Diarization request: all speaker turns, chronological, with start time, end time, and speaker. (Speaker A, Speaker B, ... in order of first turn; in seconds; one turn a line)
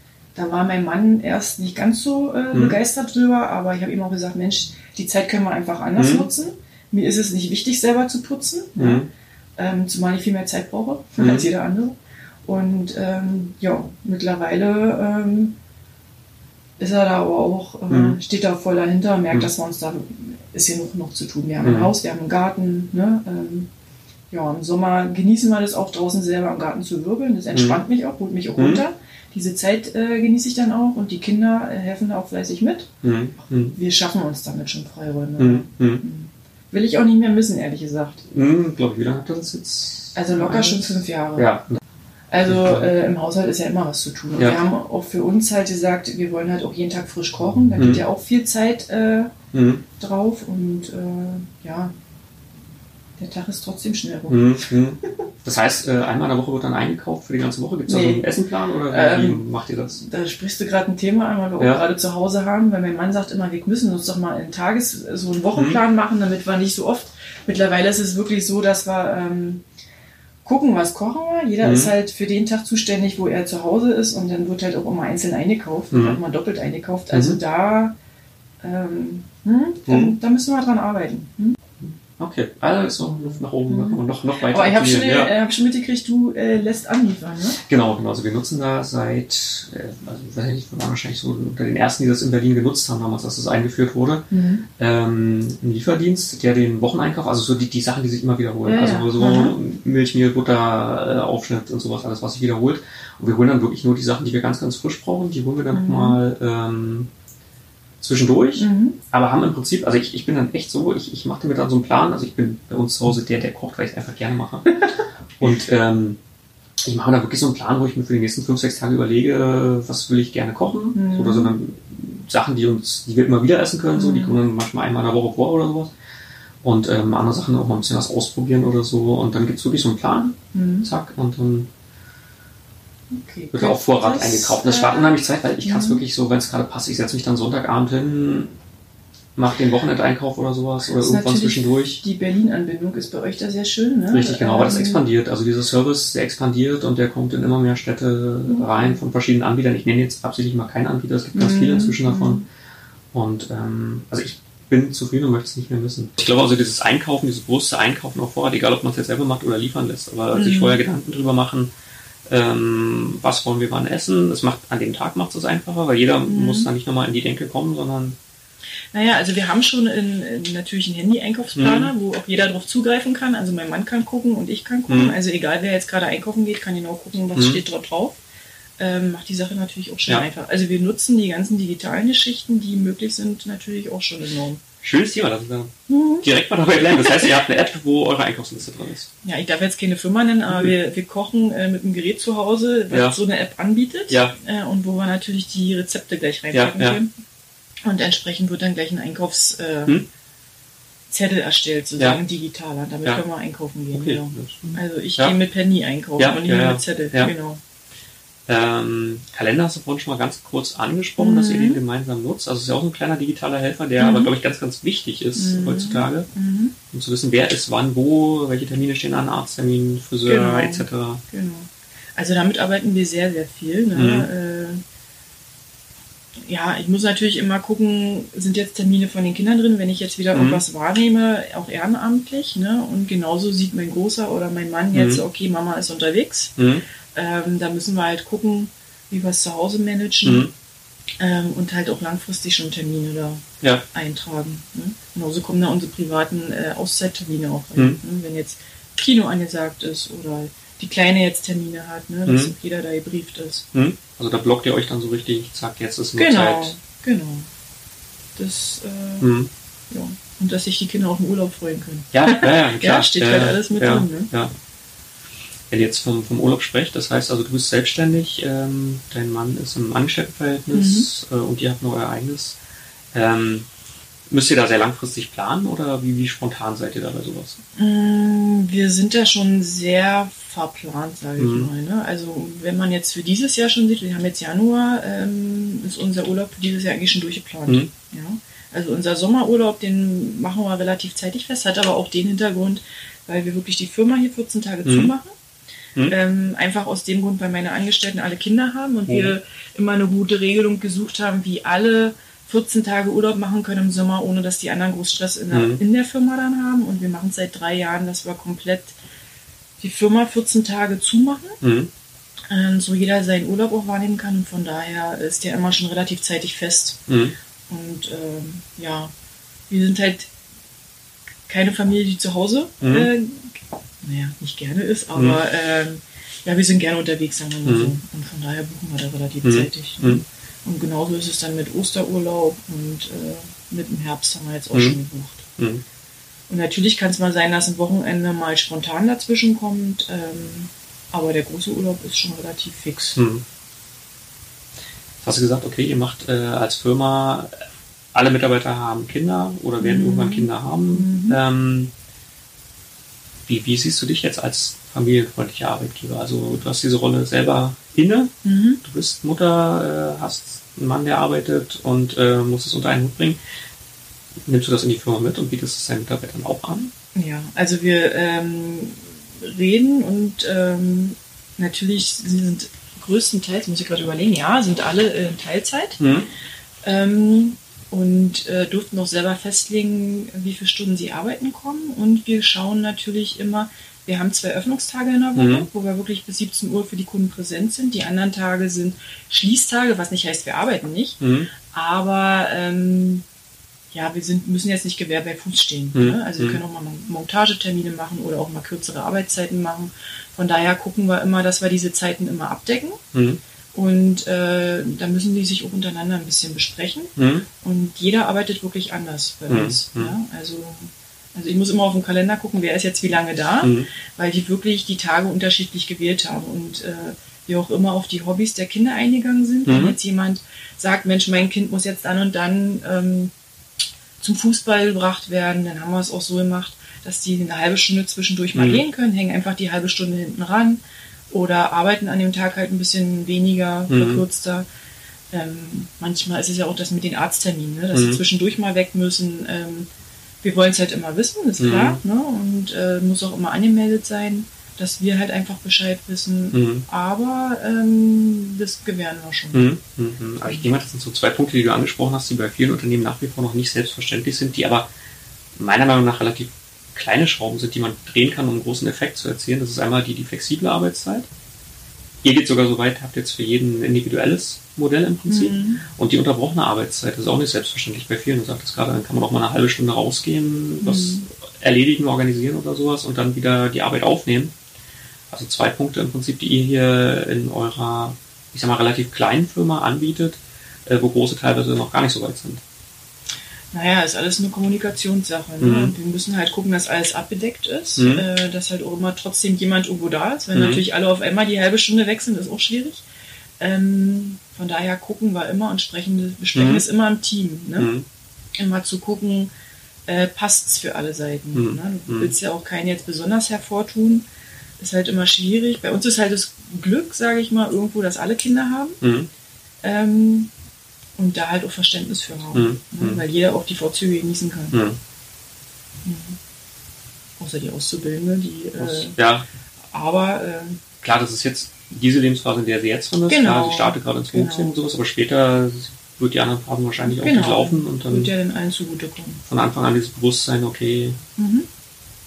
Speaker A: 0.3-9.0
Speaker B: 2.5-2.8
Speaker B: 6.0-6.3
Speaker B: 8.8-9.1
Speaker A: 9.6-15.6
Speaker B: 11.2-11.5
Speaker A: 16.8-23.7
Speaker B: 17.9-18.2
Speaker B: 21.6-21.9
Speaker A: 24.3-32.9
Speaker B: 27.5-27.8
Speaker B: 28.6-28.8
Speaker B: 33.0-33.8
Speaker A: 33.7-38.3
Speaker B: 35.4-36.0
Speaker B: 38.3-41.8
Speaker A: 40.1-41.6
Speaker A: 42.3-49.4
Speaker B: 42.5-42.9
Speaker B: 47.8-48.0
Speaker B: 49.5-49.8
Speaker A: 50.0-51.9
Speaker A: 53.2-54.7
Speaker B: 54.3-60.0
Speaker A: 57.9-58.3
Speaker A: 58.9-59.5
Speaker A: 60.0-69.6
Speaker B: 65.5-65.8
Speaker A: 70.5-78.0
Speaker B: 71.6-71.9
Speaker B: 75.9-76.2
Speaker B: 77.1-77.4
Speaker A: 78.6-81.6
Speaker B: 79.9-80.2
Speaker B: 81.8-85.3
Speaker A: 83.7-87.6
Speaker B: 87.6-107.1
Speaker A: 94.3-94.7
Speaker A: 98.7-99.6
Speaker A: 105.7-106.2
Speaker B: 108.0-114.8
Speaker A: 108.6-109.0
Speaker B: 115.4-116.2
Speaker B: 116.8-125.9
Speaker A: 120.9-121.5
Speaker A: 124.0-124.4
Speaker B: 126.6-131.7
Speaker A: 130.5-130.9
Speaker A: 133.1-136.0
Speaker B: 133.5-138.5
Speaker B: 139.4-142.0
Speaker A: 140.9-145.0
Speaker B: 144.1-152.4
Speaker A: 148.5-149.0
Speaker A: 151.3-152.5
Speaker B: 153.1-161.7
Speaker A: 160.3-160.8
Speaker B: 162.3-168.2
Speaker A: 166.3-166.7
Speaker A: 168.9-178.2
Speaker B: 171.6-171.9
Speaker B: 174.9-175.2
Speaker B: 177.3-177.6
Speaker A: 178.8-184.6
Speaker B: 184.8-189.1
Speaker A: 185.9-186.3
Speaker A: 187.0-187.3
Speaker A: 189.2-197.1
Speaker B: 192.9-193.2
Speaker B: 194.1-194.4
Speaker B: 196.5-197.0
Speaker A: 197.8-200.0
Speaker A: 201.1-207.6
Speaker B: 203.9-205.3
Speaker B: 206.2-207.3
Speaker B: 208.5-216.3
Speaker A: 211.2-211.8
Speaker A: 214.0-214.3
Speaker A: 215.4-216.8
Speaker B: 216.9-221.2
Speaker A: 220.2-224.8
Speaker B: 223.9-224.3
Speaker A: 226.5-236.6
Speaker B: 230.3-230.6
Speaker B: 234.9-235.2
Speaker B: 236.6-236.8
Speaker A: 237.2-240.5
Speaker B: 240.2-240.5
Speaker A: 241.2-253.7
Speaker B: 252.3-252.5
Speaker B: 253.7-256.8
Speaker A: 256.2-257.5
Speaker A: 258.4-259.3
Speaker B: 259.2-259.5
Speaker A: 259.9-264.3
Speaker B: 262.1-264.5
Speaker B: 265.7-272.6
Speaker A: 270.7-271.1
Speaker B: 273.1-273.7
Speaker B: 274.3-277.6
Speaker A: 277.8-295.3
Speaker B: 281.4-281.7
Speaker B: 294.9-295.1
Speaker A: 296.1-309.0
Speaker B: 305.5-305.8
Speaker A: 309.8-311.6
Speaker B: 311.6-311.9
Speaker A: 312.5-317.0
Speaker B: 317.1-317.4
Speaker A: 317.7-319.1
Speaker A: 319.7-320.3
Speaker A: 321.5-335.5
Speaker B: 322.8-323.1
Speaker B: 327.6-327.9
Speaker B: 329.4-330.2
Speaker B: 335.6-335.8
Speaker A: 336.5-343.2
Speaker B: 343.2-343.4
Speaker B: 345.2-347.5
Speaker B: 348.1-351.9
Speaker A: 349.8-351.4
Speaker B: 353.5-363.4
Speaker A: 358.4-358.8
Speaker B: 364.5-366.9
Speaker A: 367.1-376.1
Speaker B: 376.0-376.3
Speaker A: 376.9-393.2
Speaker B: 385.4-385.7
Speaker B: 391.2-391.5
Speaker A: 393.9-403.0
Speaker B: 395.9-396.6
Speaker B: 403.1-403.4
Speaker A: 403.7-423.3
Speaker B: 407.2-407.4
Speaker B: 409.5-410.1
Speaker B: 413.6-413.9
Speaker B: 419.7-419.9
Speaker A: 424.2-434.7
Speaker B: 428.6-428.8
Speaker B: 433.9-434.2
Speaker A: 435.3-439.9
Speaker B: 437.9-438.2
Speaker A: 440.4-449.7
Speaker B: 441.6-442.0
Speaker B: 446.5-446.9
Speaker B: 449.5-454.9
Speaker B: 455.6-461.3
Speaker B: 462.2-474.6
Speaker A: 465.3-465.9
Speaker A: 470.8-471.3
Speaker B: 475.3-482.6
Speaker A: 483.7-493.0
Speaker B: 485.6-485.9
Speaker B: 488.0-488.2
Speaker B: 490.5-490.8
Speaker A: 493.6-497.9
Speaker B: 496.6-496.8
Speaker B: 497.8-498.1
Speaker A: 498.6-499.5
Speaker A: 500.1-504.3
Speaker B: 501.5-502.3
Speaker A: 504.8-509.0
Speaker B: 509.0-509.3
Speaker A: 509.8-510.5
Speaker A: 511.2-514.8
Speaker B: 512.5-513.2
Speaker B: 514.7-515.0
Speaker A: 516.0-516.4
Speaker A: 517.4-519.2
Speaker B: 518.8-519.5
Speaker A: 519.9-520.8
Speaker B: 521.0-528.3
Speaker A: 523.3-524.7
Speaker A: 527.1-529.4
Speaker B: 529.5-531.2
Speaker A: 531.4-531.7